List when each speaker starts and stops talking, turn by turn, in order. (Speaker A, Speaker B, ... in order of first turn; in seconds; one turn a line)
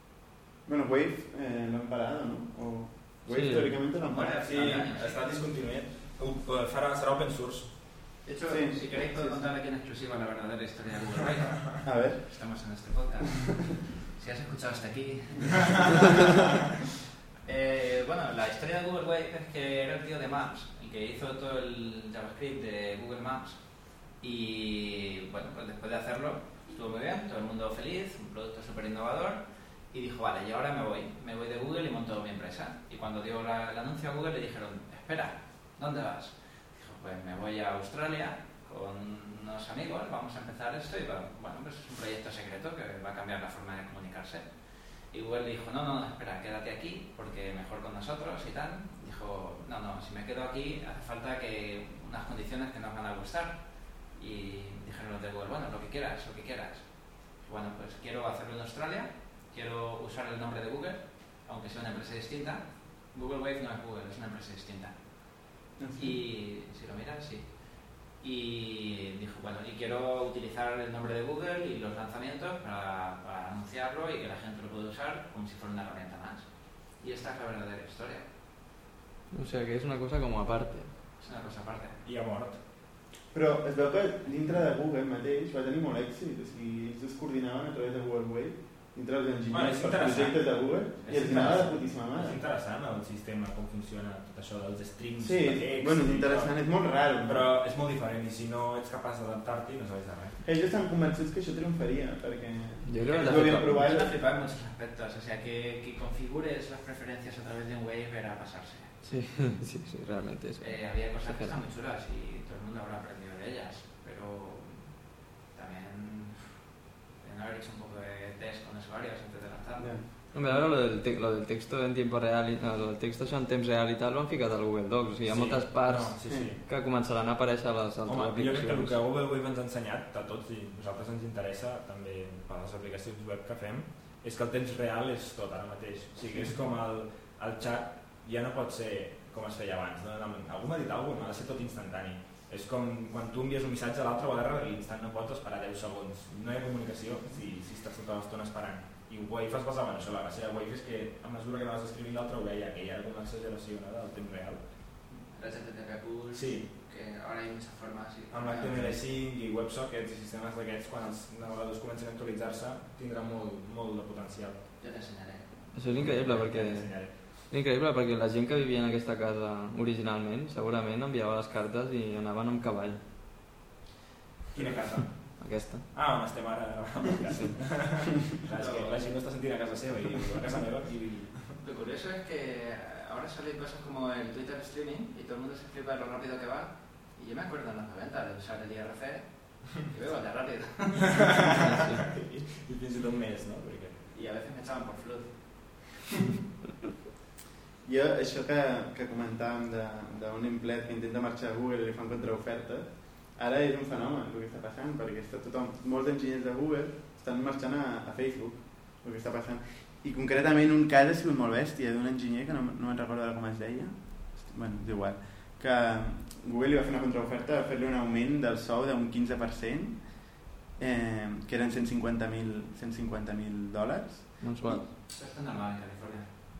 Speaker A: 0.6-4.8
Speaker B: 3.3-3.8
Speaker C: 4.0-5.2
Speaker D: 4.1-8.0
Speaker C: 8.2-16.1
Speaker A: 8.5-9.4
Speaker A: 11.8-12.8
Speaker C: 17.4-78.3
Speaker A: 65.8-66.2
Speaker B: 79.3-80.9
Speaker C: 81.2-82.0
Speaker D: 82.0-82.6
Speaker A: 83.3-92.4
Speaker D: 89.5-100.4
Speaker A: 95.2-97.5
Speaker A: 100.4-104.2
Speaker B: 102.8-103.8
Speaker C: 103.0-109.0
Speaker B: 109.0-111.5
Speaker C: 110.6-120.7
Speaker A: 119.8-120.1
Speaker B: 120.3-129.0
Speaker D: 125.2-126.6
Speaker A: 126.3-126.5
Speaker D: 128.0-154.7
Speaker C: 155.1-159.0
Speaker D: 156.3-156.7
Speaker D: 158.3-164.7
Speaker C: 164.8-166.1
Speaker B: 165.7-173.0
Speaker D: 166.0-167.1
Speaker D: 174.5-181.6
Speaker B: 175.4-175.9
Speaker B: 177.3-177.6
Speaker C: 178.5-179.4
Speaker C: 181.6-191.6
Speaker D: 191.7-194.0
Speaker C: 194.1-195.8
Speaker A: 197.8-224.8
Speaker B: 224.4-224.8
Speaker C: 224.9-226.3